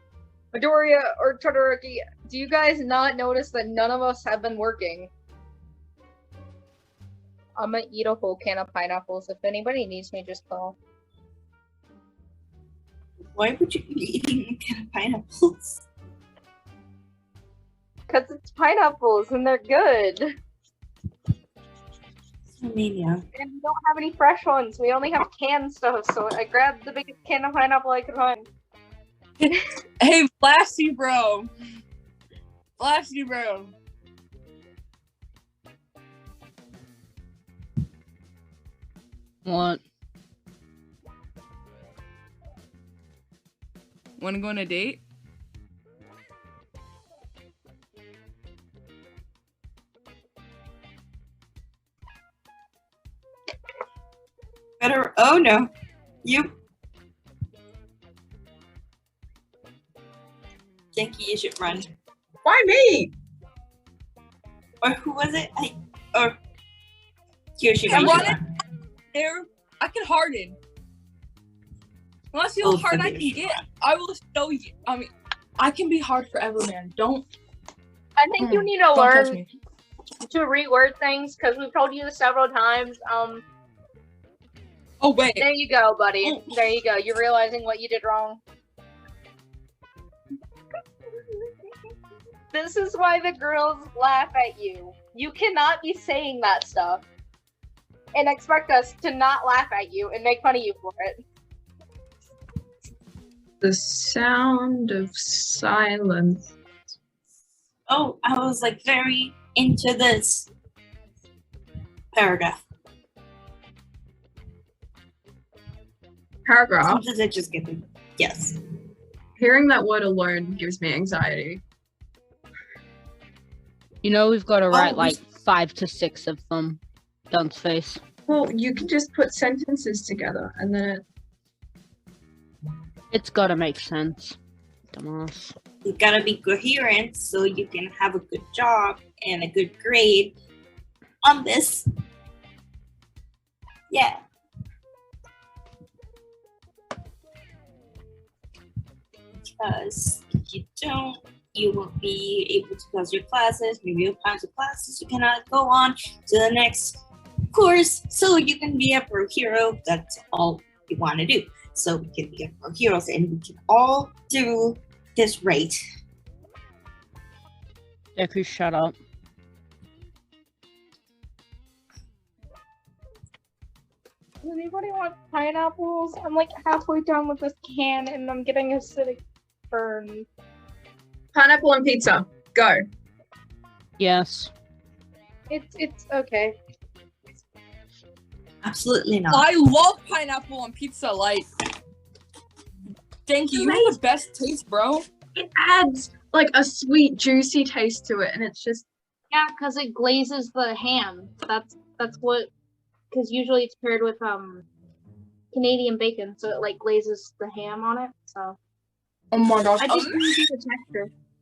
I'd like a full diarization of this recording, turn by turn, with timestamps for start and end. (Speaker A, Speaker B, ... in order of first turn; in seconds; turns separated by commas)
Speaker A: 0.5-5.1, Speaker A: 7.6-10.8, Speaker B: 13.3-15.8, Speaker A: 18.1-20.3, Speaker B: 22.6-23.2, Speaker A: 23.3-28.5, Speaker C: 29.4-31.5, Speaker C: 32.8-33.7, Speaker D: 39.4-39.8, Speaker C: 44.2-45.0, Speaker B: 54.8-55.7, Speaker B: 56.2-56.5, Speaker B: 60.9-61.9, Speaker E: 62.4-63.1, Speaker B: 64.8-66.4, Speaker B: 67.6-68.4, Speaker C: 67.9-68.4, Speaker C: 69.1-70.6, Speaker C: 72.3-77.3, Speaker B: 72.6-73.6, Speaker A: 78.2-79.4, Speaker C: 78.4-79.5, Speaker A: 80.2-83.4, Speaker C: 85.0-85.5, Speaker A: 85.4-88.4, Speaker A: 92.5-97.0, Speaker A: 98.1-101.2, Speaker E: 103.6-106.5, Speaker B: 107.9-110.5, Speaker B: 112.1-112.5, Speaker E: 116.4-117.0, Speaker B: 116.8-118.5, Speaker E: 119.4-121.6, Speaker D: 124.0-128.0, Speaker B: 124.7-125.2, Speaker E: 128.3-131.0, Speaker D: 133.1-134.4, Speaker D: 134.9-135.6, Speaker B: 135.8-140.3, Speaker B: 141.2-141.9, Speaker B: 143.9-144.2, Speaker B: 149.4-165.8, Speaker D: 168.2-168.9, Speaker A: 174.4-180.3, Speaker E: 181.3-182.8, Speaker D: 184.0-184.5, Speaker A: 185.5-186.6, Speaker B: 188.6-189.5, Speaker C: 189.3-191.5, Speaker C: 193.2-195.1, Speaker E: 193.6-193.9, Speaker E: 195.3-198.8, Speaker A: 199.3-202.5, Speaker A: 203.1-204.6, Speaker A: 205.5-208.6, Speaker C: 209.3-210.3, Speaker A: 209.8-211.1